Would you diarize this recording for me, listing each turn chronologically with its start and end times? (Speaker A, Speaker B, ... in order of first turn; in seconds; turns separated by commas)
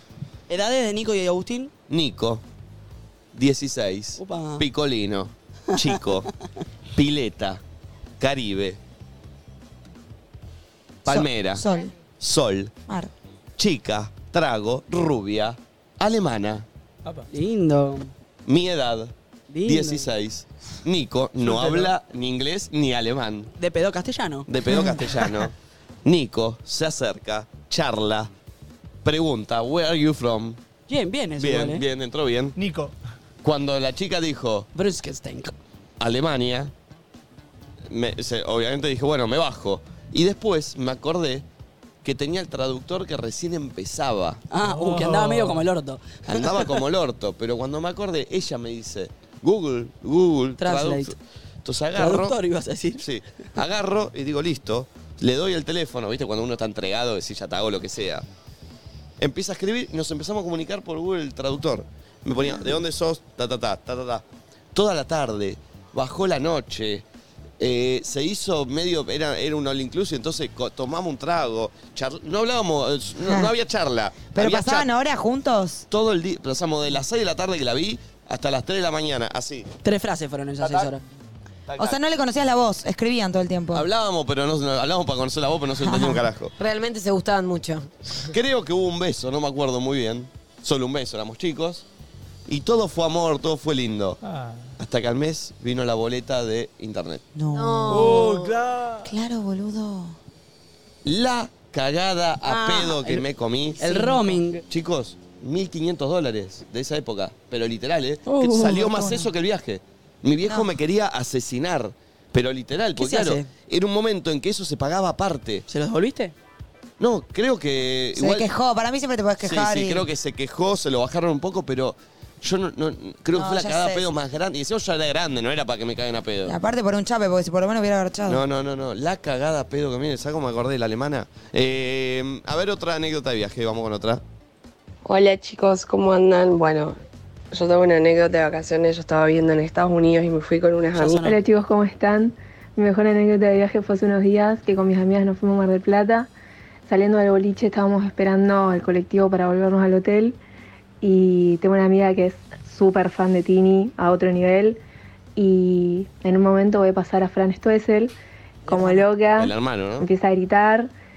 Speaker A: 0.5-1.7, Speaker B: 1.9-2.4, Speaker B: 3.3-6.3, Speaker A: 4.2-4.7, Speaker B: 7.0-7.6, Speaker B: 8.2-8.8, Speaker B: 11.1-11.7, Speaker C: 11.1-11.9, Speaker B: 12.2-12.7, Speaker B: 13.6-16.6, Speaker A: 17.3-18.1, Speaker B: 18.5-19.1, Speaker A: 19.5-20.1, Speaker B: 19.6-23.5, Speaker D: 21.4-21.9, Speaker A: 23.6-24.5, Speaker B: 24.5-25.5, Speaker C: 24.7-25.0, Speaker B: 26.1-28.3, Speaker B: 29.0-30.6, Speaker A: 30.9-31.8, Speaker B: 31.4-32.6, Speaker D: 32.6-32.9, Speaker B: 33.4-34.7, Speaker A: 34.7-35.5, Speaker B: 36.0-36.7, Speaker B: 37.9-41.5, Speaker B: 42.0-44.4, Speaker A: 44.5-46.6, Speaker D: 44.6-45.6, Speaker B: 46.3-52.4, Speaker A: 50.6-51.1, Speaker A: 52.0-53.0, Speaker B: 53.0-58.2, Speaker B: 59.2-64.2, Speaker B: 64.7-67.0, Speaker B: 67.6-74.9, Speaker C: 73.2-73.5, Speaker C: 74.3-75.9, Speaker B: 75.9-79.7, Speaker A: 79.8-81.0, Speaker B: 80.6-80.9, Speaker B: 81.7-82.0, Speaker C: 81.8-83.9, Speaker B: 83.7-86.5, Speaker C: 85.8-86.2, Speaker E: 86.6-87.9, Speaker B: 88.3-91.8, Speaker B: 92.5-94.2, Speaker D: 94.2-94.7, Speaker B: 94.8-97.2, Speaker C: 97.3-98.3, Speaker E: 97.5-98.6, Speaker D: 97.9-99.1, Speaker C: 99.0-100.2, Speaker B: 101.0-104.1, Speaker A: 102.5-103.2, Speaker A: 103.8-104.6, Speaker C: 104.0-104.4, Speaker B: 104.7-115.7, Speaker A: 108.3-108.9, Speaker C: 108.8-109.3, Speaker C: 110.4-110.7, Speaker A: 113.0-113.5, Speaker A: 115.7-116.3, Speaker B: 117.0-118.5, Speaker C: 118.2-120.0, Speaker B: 119.4-126.5, Speaker C: 123.3-124.1, Speaker C: 126.5-128.4, Speaker B: 128.3-134.2, Speaker F: 135.1-137.0, Speaker F: 137.5-141.2, Speaker A: 140.9-141.4, Speaker G: 141.2-146.3, Speaker G: 146.9-150.4, Speaker G: 151.0-154.8, Speaker G: 155.4-158.1, Speaker C: 158.7-159.0, Speaker G: 158.7-160.9, Speaker B: 159.4-160.1